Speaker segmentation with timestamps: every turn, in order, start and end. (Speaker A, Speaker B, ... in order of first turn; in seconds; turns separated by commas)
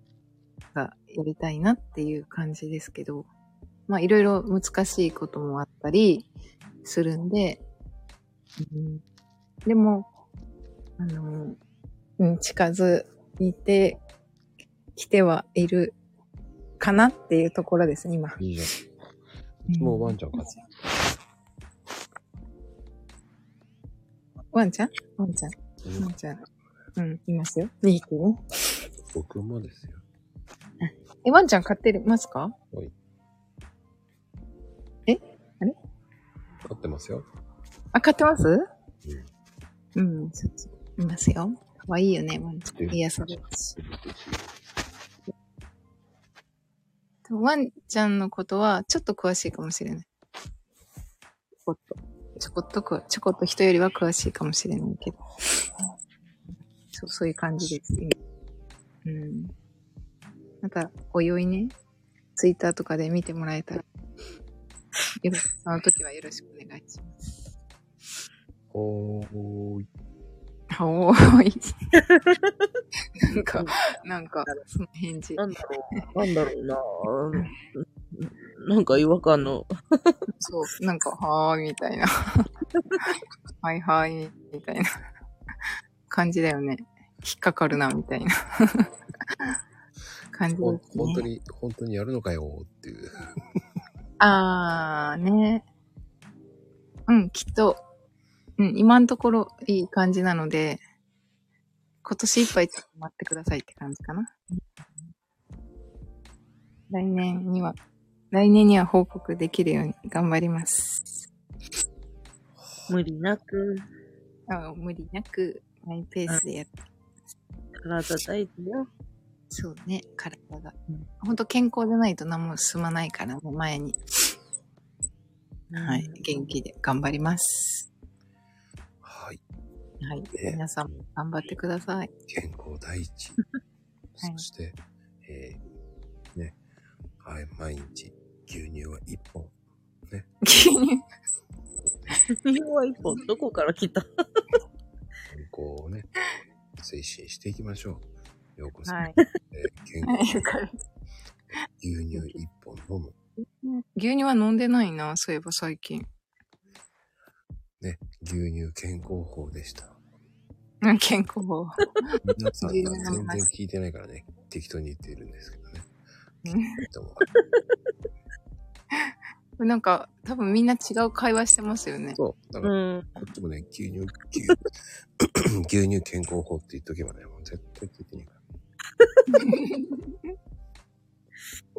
Speaker A: 0.7-3.3, Speaker A: 3.9-6.3, Speaker A: 6.8-7.6, Speaker A: 8.6-9.0, Speaker A: 9.7-10.1, Speaker A: 11.0-11.6, Speaker A: 12.2-14.0, Speaker A: 14.9-16.0, Speaker A: 16.8-18.4, Speaker B: 18.4-18.7, Speaker B: 19.7-20.6, Speaker A: 19.7-20.2, Speaker A: 24.5-26.4, Speaker B: 25.8-26.1, Speaker A: 27.0-28.4, Speaker B: 29.1-30.0, Speaker A: 31.2-32.5, Speaker A: 35.1-35.8, Speaker B: 36.6-37.2, Speaker A: 37.9-38.6, Speaker A: 40.0-43.8, Speaker B: 42.7-43.0, Speaker B: 43.8-44.4, Speaker A: 47.2-50.1, Speaker A: 51.6-55.2, Speaker A: 56.9-58.2, Speaker A: 59.0-59.5, Speaker A: 60.6-61.7, Speaker A: 62.4-63.8, Speaker A: 65.2-67.4, Speaker B: 68.7-69.9, Speaker A: 70.8-71.7, Speaker C: 72.0-72.7, Speaker A: 73.3-75.4, Speaker C: 75.4-80.2, Speaker A: 80.3-82.5, Speaker A: 83.6-84.9, Speaker A: 86.1-89.5, Speaker A: 90.3-91.2, Speaker B: 90.6-93.2, Speaker A: 94.2-95.7, Speaker A: 97.1-97.8, Speaker A: 98.6-100.8, Speaker A: 102.0-104.3, Speaker A: 106.9-107.8, Speaker A: 108.3-111.2, Speaker C: 112.9-113.8, Speaker A: 114.5-116.7, Speaker C: 117.8-118.9, Speaker A: 119.5-124.0, Speaker C: 125.7-126.2, Speaker A: 125.7-127.9, Speaker B: 129.0-129.4, Speaker A: 130.0-132.1, Speaker B: 130.3-131.0, Speaker B: 132.3-133.4, Speaker B: 134.1-135.6, Speaker A: 134.2-134.4, Speaker B: 137.2-139.5, Speaker A: 140.4-141.0, Speaker B: 141.8-142.1, Speaker C: 142.4-144.1, Speaker B: 145.3-146.1, Speaker B: 146.8-148.1, Speaker B: 148.6-150.2, Speaker A: 148.8-149.2, Speaker A: 150.0-150.7, Speaker B: 151.8-153.1, Speaker A: 153.4-156.1, Speaker B: 157.8-159.9, Speaker A: 160.8-163.5, Speaker B: 162.2-165.9, Speaker A: 166.4-166.8, Speaker B: 166.8-167.3, Speaker A: 168.9-172.2, Speaker B: 172.2-174.6, Speaker C: 172.6-173.2, Speaker B: 175.2-178.4, Speaker A: 179.3-180.1